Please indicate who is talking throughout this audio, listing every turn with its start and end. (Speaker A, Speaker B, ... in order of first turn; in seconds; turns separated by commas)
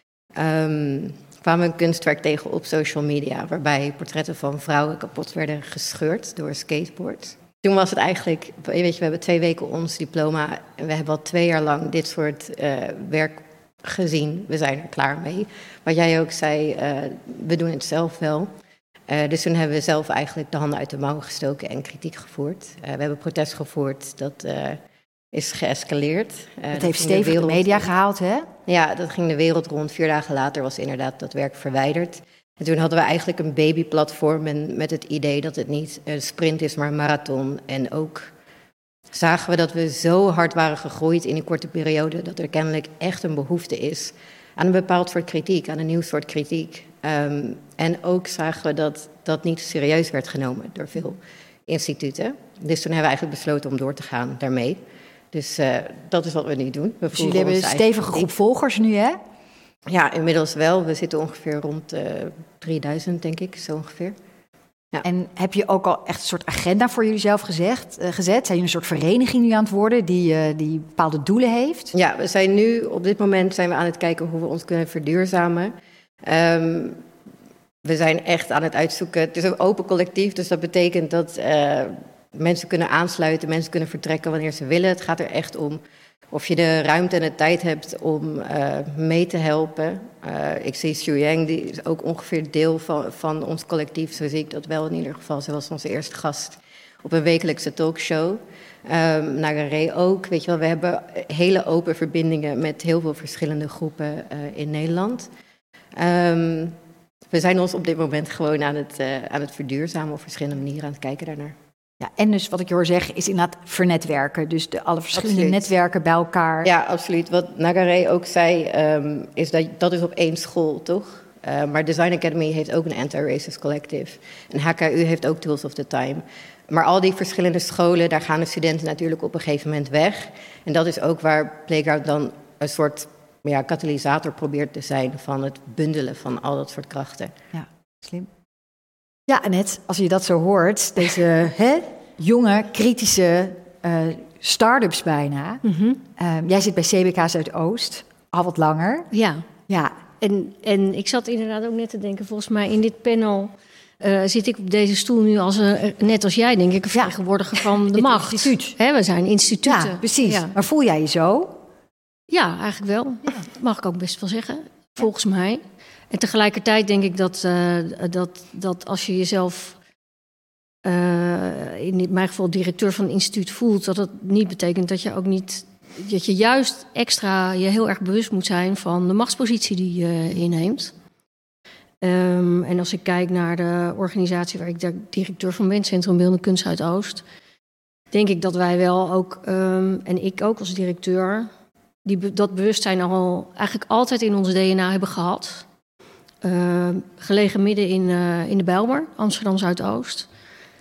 Speaker A: 0.4-18.5, Speaker A: 19.1-24.8, Speaker A: 25.3-27.8, Speaker B: 26.7-28.5, Speaker A: 28.7-38.3, Speaker A: 39.1-58.3, Speaker B: 57.1-59.2, Speaker A: 59.9-64.2, Speaker B: 65.0-71.9, Speaker A: 71.9-77.0, Speaker A: 77.8-105.3, Speaker A: 106.0-106.8, Speaker A: 107.3-111.5, Speaker B: 112.0-116.7, Speaker A: 115.1-115.7, Speaker A: 116.6-137.3, Speaker B: 137.5-138.3, Speaker B: 139.3-149.1, Speaker C: 145.6-146.0, Speaker C: 149.1-149.4, Speaker B: 149.7-150.0, Speaker C: 150.2-160.6, Speaker B: 157.9-158.8, Speaker B: 159.6-161.6, Speaker C: 162.3-169.8, Speaker C: 170.8-180.9, Speaker C: 182.0-187.2, Speaker C: 188.1-191.5, Speaker C: 192.1-195.7, Speaker C: 196.4-200.3